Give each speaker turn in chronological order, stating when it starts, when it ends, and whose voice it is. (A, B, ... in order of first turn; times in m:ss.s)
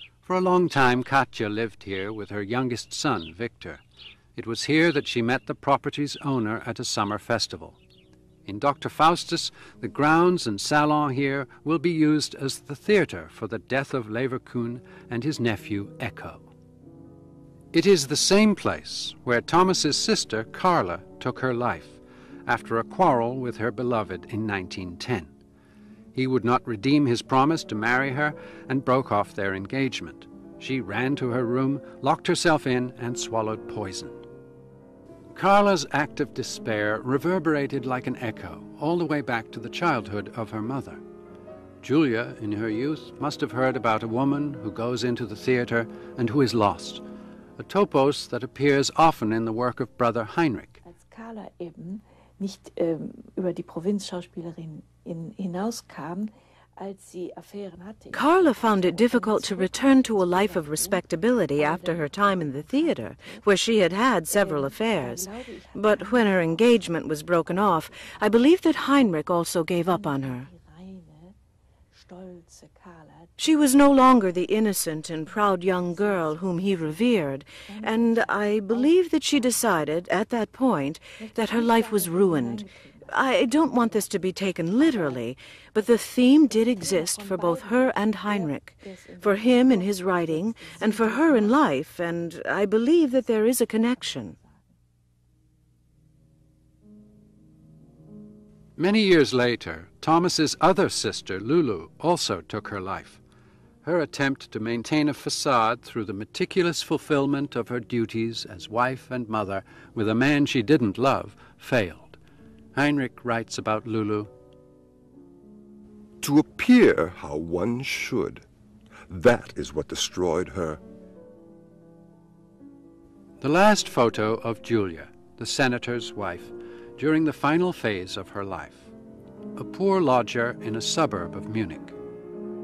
0:00.2-0:03.8 A
0:04.4-0:07.8 A
0:08.5-0:16.5 A
0:17.7-0:25.3 A
0:26.1-0:34.2 A
0:35.3-0:41.0 A
0:41.8-0:47.0 A
0:47.6-0:50.8 A
0:50.8-1:03.5 B
0:58.1-1:10.5 C
1:04.3-1:07.0 B
1:07.5-1:09.2 B
1:09.8-1:11.4 B
1:11.9-1:17.1 B
1:13.4-1:34.4 C
1:17.6-1:19.9 B
1:21.2-1:31.8 B
1:33.8-1:34.6 B
1:38.8-1:43.2 A
1:43.8-1:52.2 A
1:52.8-1:54.3 A
1:56.2-1:58.4 D
1:59.1-2:00.8 D
2:03.4-2:08.9 A
2:09.6-2:12.0 A